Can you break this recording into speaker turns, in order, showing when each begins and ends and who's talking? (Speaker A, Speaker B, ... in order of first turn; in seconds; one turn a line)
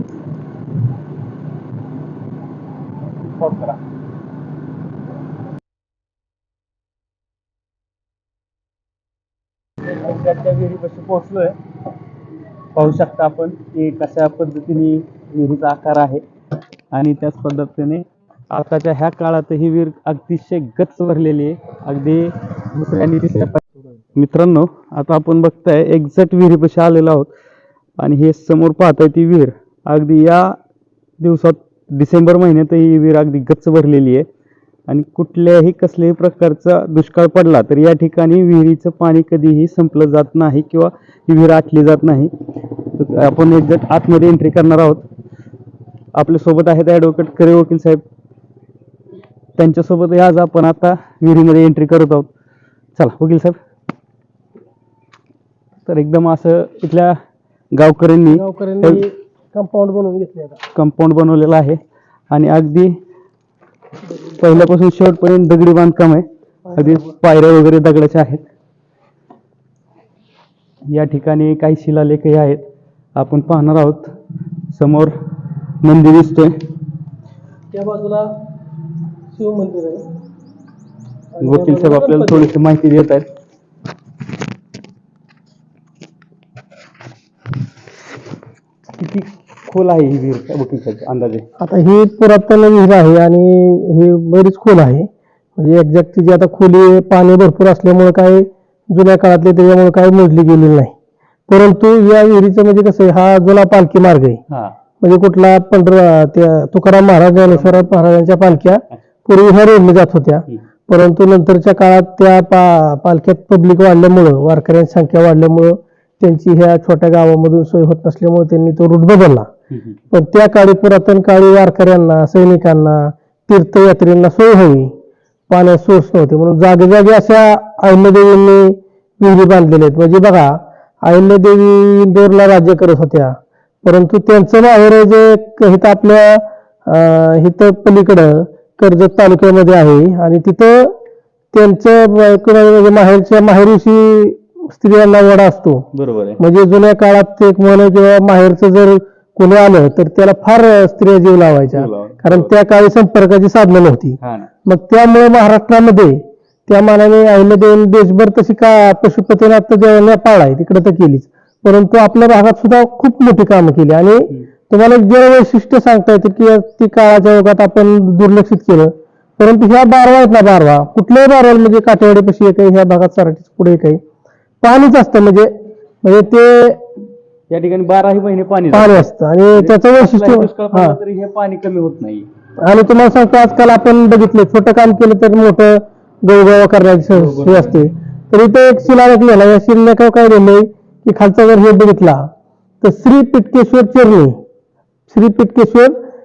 Speaker A: 3.4-3.8
Speaker A: 9.9-11.6
Speaker A: 12.8-16.2
Speaker A: 16.9-23.6
Speaker A: 24.1-27.3
Speaker A: 28.0-30.6
Speaker A: 31.2-34.3
Speaker A: 34.9-42.3
Speaker A: 43.0-45.0
Speaker A: 46.2-48.0
Speaker A: 49.6-52.3
Speaker A: 53.0-53.6
Speaker A: 55.9-57.2
Speaker A: 57.7-59.0
Speaker B: 58.3-60.6
Speaker A: 60.7-61.8
Speaker A: 62.3-63.0
Speaker A: 64.3-68.5
Speaker A: 70.9-72.6
Speaker A: 73.2-74.1
Speaker A: 74.7-75.1
Speaker A: 75.8-76.5
Speaker B: 77.7-78.3
Speaker B: 79.3-80.1
Speaker B: 81.4-82.5
Speaker A: 81.4-83.3
Speaker A: 89.0-91.5
Speaker B: 91.6-100.9
Speaker B: 101.5-104.4
Speaker A: 104.5-104.8
Speaker B: 105.0-119.5
Speaker A: 107.4-107.9
Speaker A: 119.7-120.0
Speaker B: 120.1-124.9
Speaker B: 125.5-140.9
Speaker B: 141.5-145.9
Speaker A: 145.9-146.4
Speaker B: 146.4-174.0
Speaker A: 151.7-152.5
Speaker A: 154.2-154.5
Speaker B: 174.6-176.8
Speaker A: 177.5-182.3
Speaker B: 178.7-181.0
Speaker B: 182.6-192.3
Speaker A: 187.1-187.8
Speaker B: 192.8-194.4
Speaker B: 195.1-196.0